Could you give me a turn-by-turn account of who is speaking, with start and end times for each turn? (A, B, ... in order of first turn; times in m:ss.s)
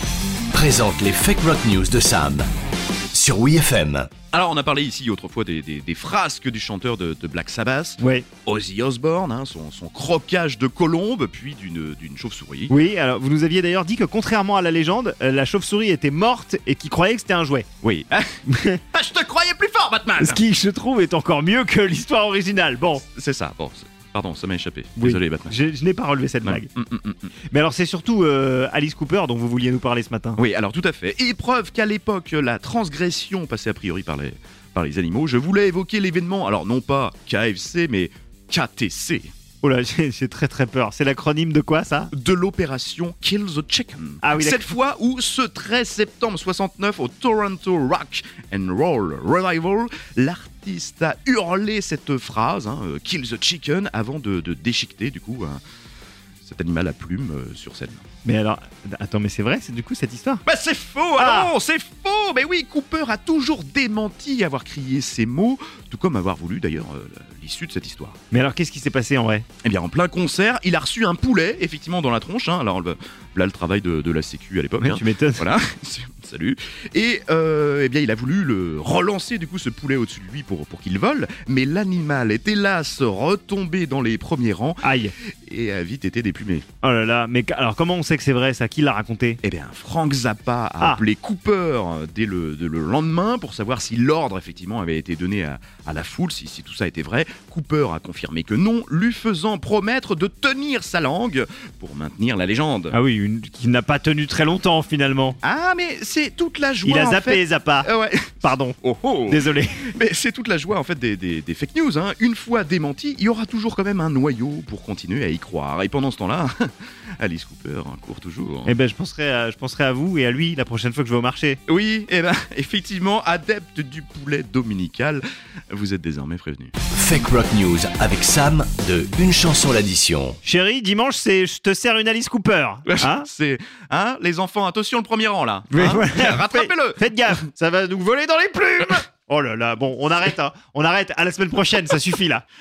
0:00.5-0:02.5 A
0:03.1-0:04.1 A
0:04.3-0:12.7 B
0:08.0-0:08.3 C
0:12.7-0:17.6 C
0:17.8-0:18.4 B
0:18.5-0:18.8 C
0:18.9-0:20.4 B
0:20.2-0:23.0 C
0:23.1-0:25.6 B
0:25.0-0:26.7 C
0:26.4-0:27.3 B
0:27.5-0:30.4 C
0:30.4-0:39.3 B
0:39.6-0:42.1 C
0:42.1-0:55.6 B
0:44.2-0:44.7 C
0:56.4-0:58.0 B
0:58.2-1:00.4 C
1:00.4-1:08.2 B
1:01.2-1:01.5 C
1:08.3-1:09.4 C
1:09.6-1:24.8 B
1:14.8-1:15.4 C
1:24.8-1:25.1 C
1:25.4-1:26.6 B
1:26.8-1:29.4 C
1:29.4-1:42.9 B
1:42.9-1:45.4 C
1:45.4-1:49.4 B
1:46.8-1:47.9 C
1:48.4-1:48.8 C
1:49.3-1:49.8 C
1:49.9-1:58.7 B
1:58.6-2:01.6 C
2:01.7-2:06.7 B
2:06.9-2:10.4 A
2:10.4-2:13.3 C
2:12.8-2:17.4 B
2:15.7-2:22.4 C